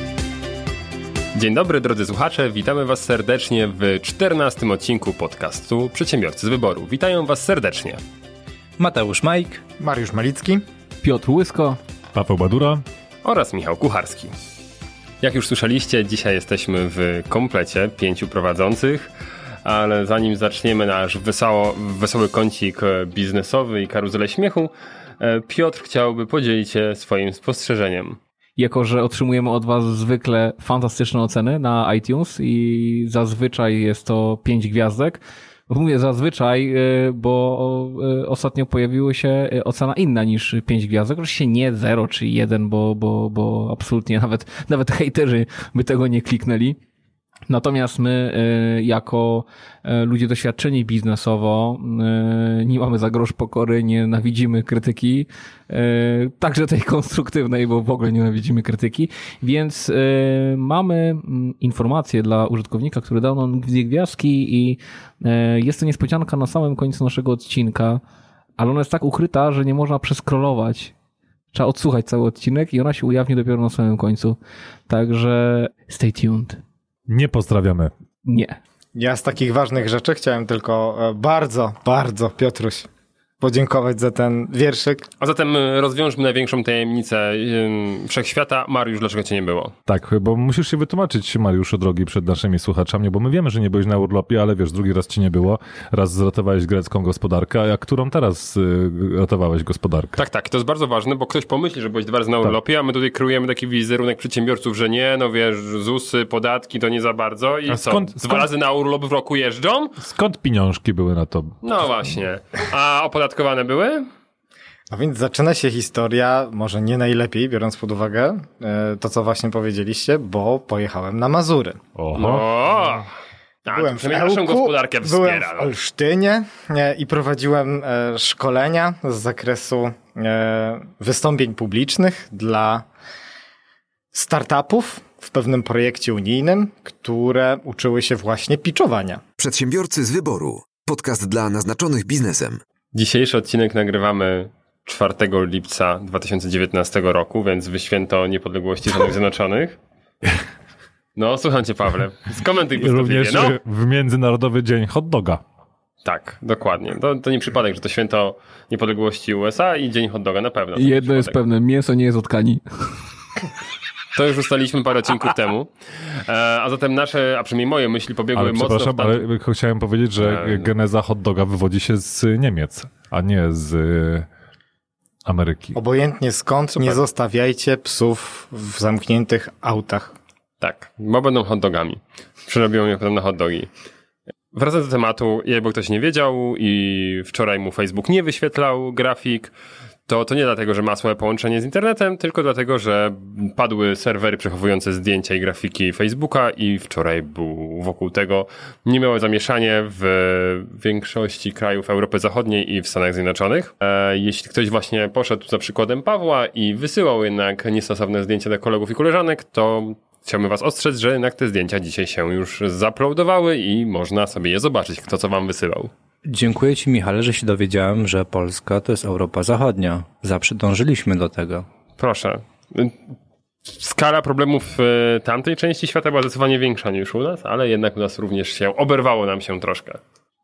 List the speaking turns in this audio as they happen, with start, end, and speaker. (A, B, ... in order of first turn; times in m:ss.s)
0:01.3-0:08.0 A
0:08.8-0:09.6 B
0:09.8-0:10.6 C
0:11.0-0:11.8 D
0:12.1-0:12.8 E
0:13.2-0:14.3 A
0:15.2-0:19.1 A
0:19.6-0:28.2 A
0:28.6-0:46.8 D
0:47.5-1:08.0 D
1:08.6-1:10.9 D
1:11.5-1:14.4 D
1:14.9-1:16.6 D
1:17.1-1:17.9 E
1:18.2-1:18.6 D
1:19.0-1:22.9 C
1:23.4-1:25.1 C
1:25.2-1:29.7 A
1:29.9-1:40.2 E
1:40.2-1:50.0 A
1:47.7-1:48.5 E
1:50.0-1:51.6 E
1:51.6-1:54.1 A
1:54.9-2:01.8 C
2:02.0-2:02.5 E
2:02.1-2:03.1 A
2:03.6-2:05.7 A
2:03.7-2:12.8 C
2:14.1-2:19.2 C
2:19.4-2:22.6 F
2:22.9-2:29.8 A
2:31.2-2:33.6 A
2:32.8-2:35.4 E
2:36.0-2:41.4 A
2:40.7-2:43.0 D
2:44.1-2:49.3 A
2:48.3-2:54.3 E
2:50.2-2:50.7 A
2:55.2-2:55.8 E
2:55.7-3:00.1 C
3:00.6-3:03.7 A
3:04.5-3:09.5 A
3:10.1-3:35.9 A
3:36.2-3:41.6 B
3:42.0-3:43.0 A
3:43.6-3:50.0 A